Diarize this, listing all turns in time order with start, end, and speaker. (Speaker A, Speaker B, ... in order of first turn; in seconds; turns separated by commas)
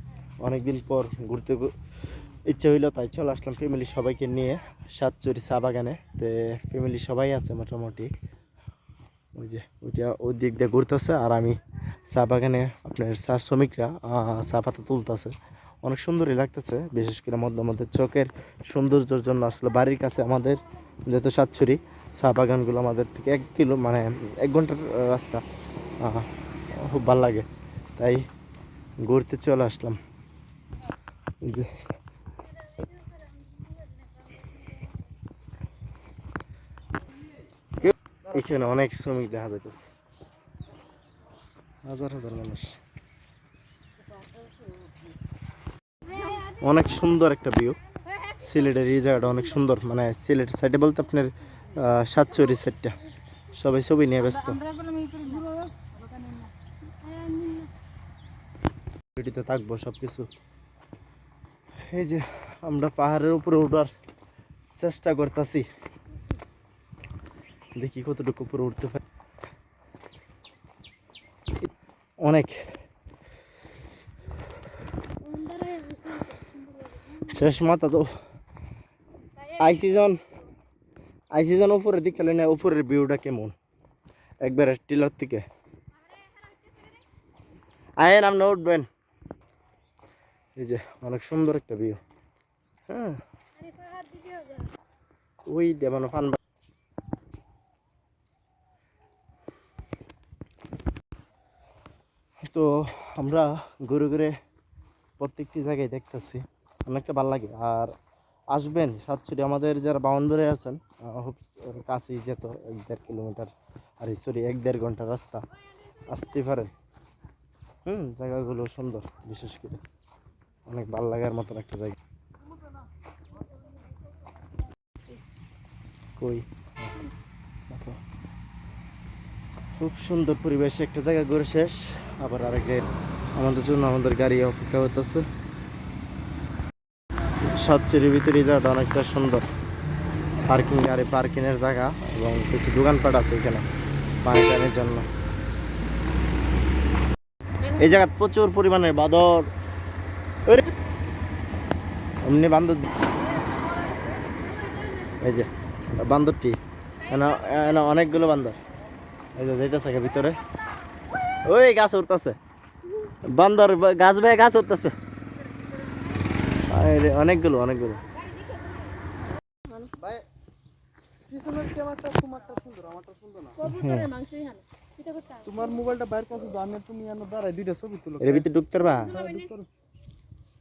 Speaker A: 0.4-1.7, Speaker A: 2.5-8.1, Speaker A: 9.3-25.4, Speaker A: 26.0-28.2, Speaker A: 29.0-30.0, Speaker A: 31.4-31.8, Speaker B: 33.7-34.5, Speaker A: 37.8-39.9, Speaker A: 41.9-42.8, Speaker A: 46.3-47.8, Speaker A: 48.3-53.0, Speaker A: 53.5-54.7, Speaker B: 54.7-56.5, Speaker B: 57.0-57.7, Speaker A: 59.1-60.3, Speaker A: 61.9-63.9, Speaker A: 64.8-65.7, Speaker A: 67.8-69.0, Speaker A: 72.2-72.7, Speaker B: 75.2-77.0, Speaker A: 77.1-78.1, Speaker A: 79.5-80.2, Speaker A: 81.3-83.5, Speaker A: 84.4-85.5, Speaker B: 86.1-86.9, Speaker A: 88.0-88.9, Speaker A: 90.5-92.0, Speaker A: 92.9-93.2, Speaker B: 93.6-94.7, Speaker A: 95.5-96.4, Speaker A: 102.4-104.3, Speaker A: 105.2-107.9, Speaker A: 108.5-115.4, Speaker A: 116.1-116.7, Speaker A: 117.8-119.8, Speaker A: 120.7-122.0, Speaker A: 126.2-127.1, Speaker A: 127.7-128.0, Speaker A: 129.8-135.3, Speaker A: 137.4-139.5, Speaker A: 140.4-143.7, Speaker A: 144.2-145.1, Speaker A: 147.7-149.5, Speaker A: 152.2-152.8, Speaker A: 155.2-158.6, Speaker A: 159.3-160.4, Speaker A: 161.5-162.4, Speaker A: 163.2-164.9, Speaker A: 166.7-168.0, Speaker C: 170.0-170.2, Speaker C: 171.3-173.6, Speaker A: 173.6-174.1, Speaker B: 173.7-175.6, Speaker C: 175.4-178.4, Speaker A: 178.2-179.2, Speaker C: 179.0-179.7